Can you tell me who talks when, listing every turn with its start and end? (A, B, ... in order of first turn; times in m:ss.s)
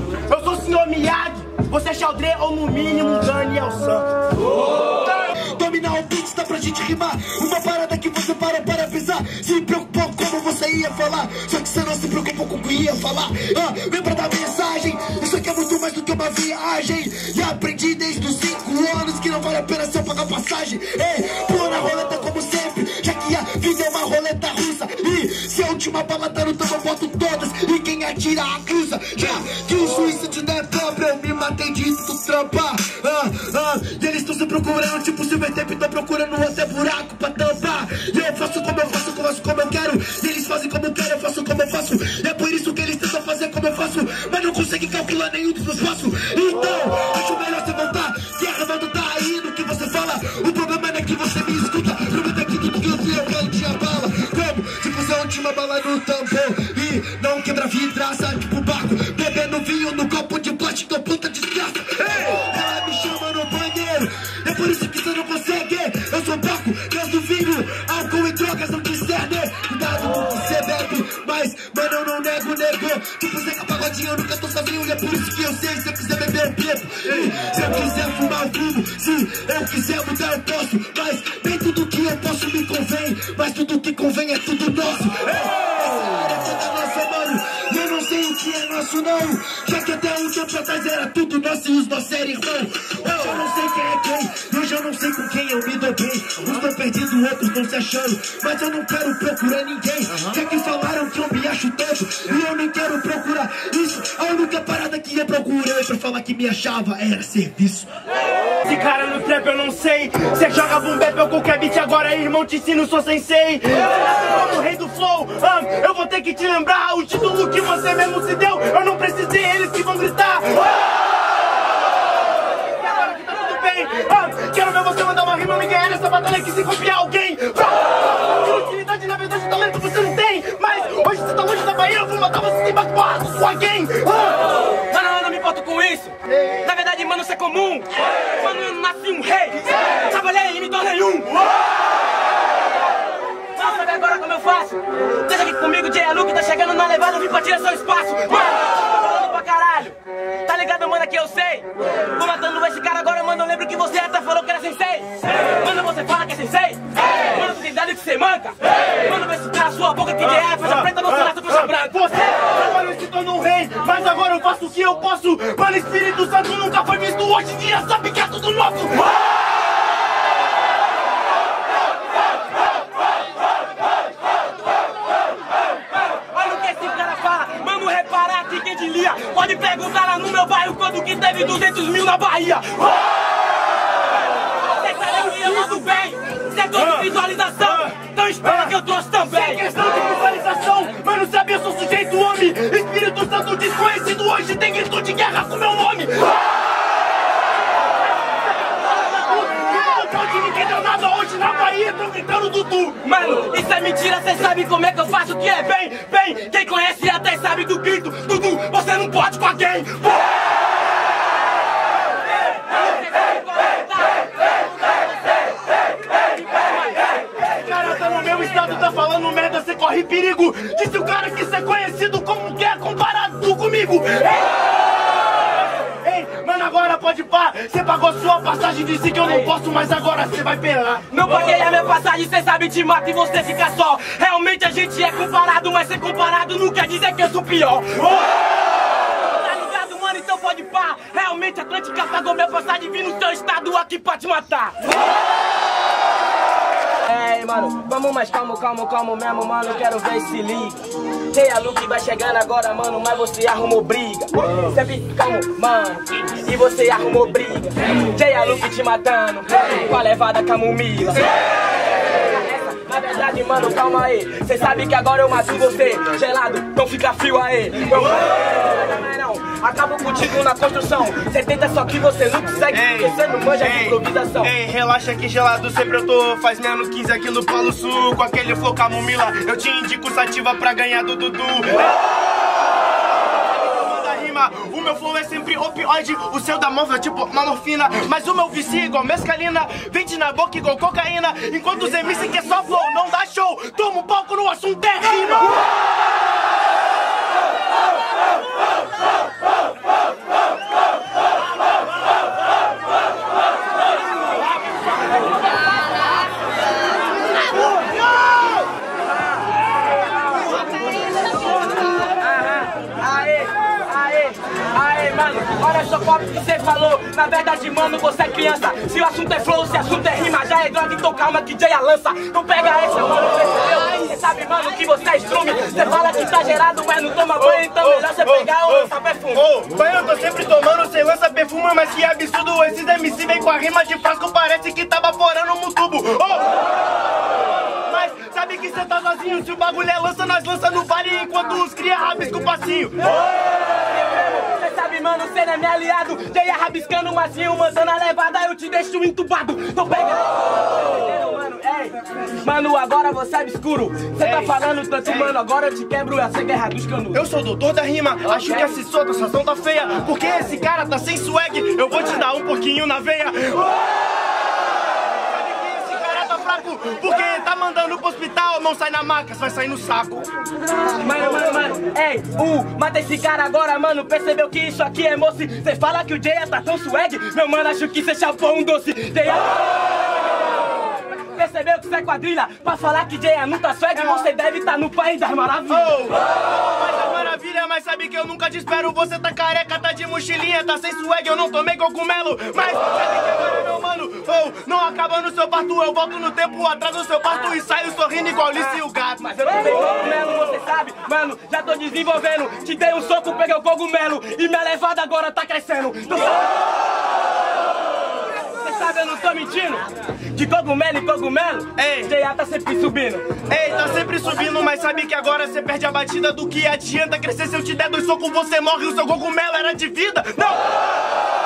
0:00.3-0:04.1 A
0:05.5-1:47.9 B
1:48.6-2:00.9 A
2:02.8-2:14.4 A
2:14.7-2:21.4 C
2:23.5-2:42.0 C
2:40.4-2:40.9 A
2:41.7-2:49.1 A
2:55.9-3:03.2 C
3:04.6-3:09.6 C
3:06.7-3:07.1 A
3:07.6-3:16.4 A
3:18.7-3:23.0 A
3:23.0-3:30.3 C
3:32.7-3:34.5 C
3:36.5-3:37.1 C
3:37.4-3:44.5 A
3:46.0-3:51.0 A
3:51.1-3:58.3 C
3:59.1-4:04.8 C
4:07.0-4:10.8 C
4:11.3-4:21.3 C
4:22.1-4:34.5 C
4:32.7-4:42.1 A
4:43.3-4:55.6 A
5:12.1-5:29.4 C
5:27.4-5:36.6 A
5:37.8-5:43.0 A
5:43.2-5:57.2 C
5:54.2-5:55.3 A
5:57.1-6:03.8 A
5:58.3-5:58.8 C
6:05.2-6:10.3 A
6:11.0-6:20.0 C
6:21.2-6:25.9 C
6:25.7-6:39.3 A
6:39.2-6:46.5 C
6:48.5-6:53.3 C
6:51.8-6:52.1 A
6:53.5-7:00.8 A